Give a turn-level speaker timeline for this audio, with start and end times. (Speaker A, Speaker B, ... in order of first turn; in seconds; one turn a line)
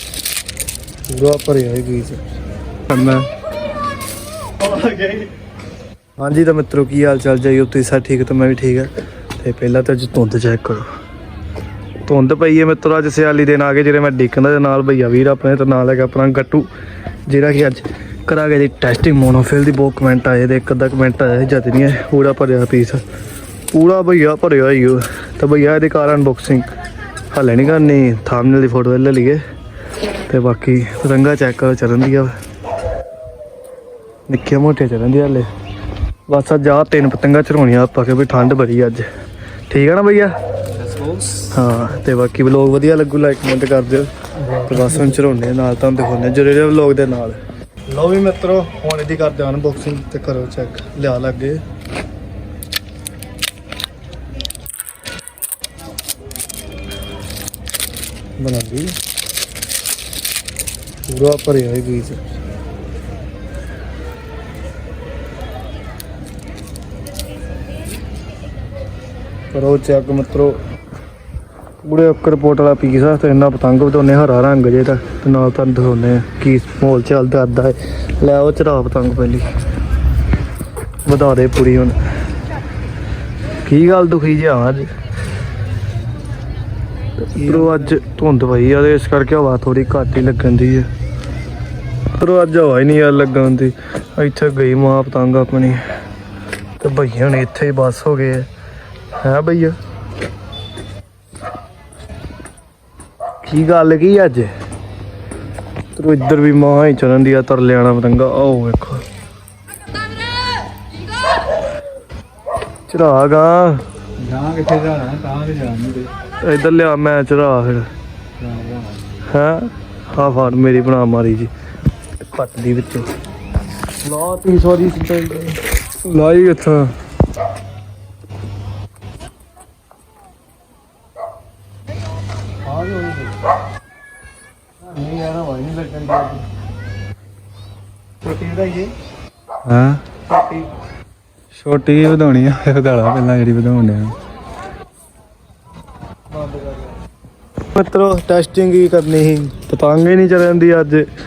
Speaker A: 1.1-2.2
Speaker B: 2.9-3.3
Speaker A: 4.6-5.3
Speaker A: 6.2-10.9
Speaker A: 12.1-16.7
Speaker A: 17.3-23.0
Speaker A: 23.7-26.7
Speaker A: 27.3-29.4
Speaker A: 30.3-32.3
Speaker A: 34.3-35.5
Speaker A: 36.3-39.1
Speaker A: 39.7-40.3
Speaker B: 40.8-41.5
Speaker A: 41.5-51.6
Speaker B: 44.5-44.7
Speaker A: 58.4-58.9
Speaker A: 61.0-62.2
Speaker A: 69.5-70.6
Speaker A: 71.8-79.5
Speaker A: 81.0-82.0
Speaker A: 83.6-84.9
Speaker A: 87.2-90.9
Speaker A: 92.2-95.8
Speaker A: 96.8-98.5
Speaker A: 99.2-99.8
Speaker A: 103.4-104.5
Speaker A: 106.0-109.0
Speaker A: 112.9-113.8
Speaker B: 114.2-116.1
Speaker A: 116.4-117.9
Speaker B: 118.4-119.0
Speaker A: 119.3-121.5
Speaker A: 122.3-123.1
Speaker A: 124.0-126.9
Speaker A: 132.7-133.3
Speaker A: 134.8-136.4
Speaker A: 138.2-138.9
Speaker B: 139.7-140.0
Speaker A: 140.3-140.7
Speaker B: 141.6-144.2
Speaker A: 146.3-146.9
Speaker A: 147.7-151.1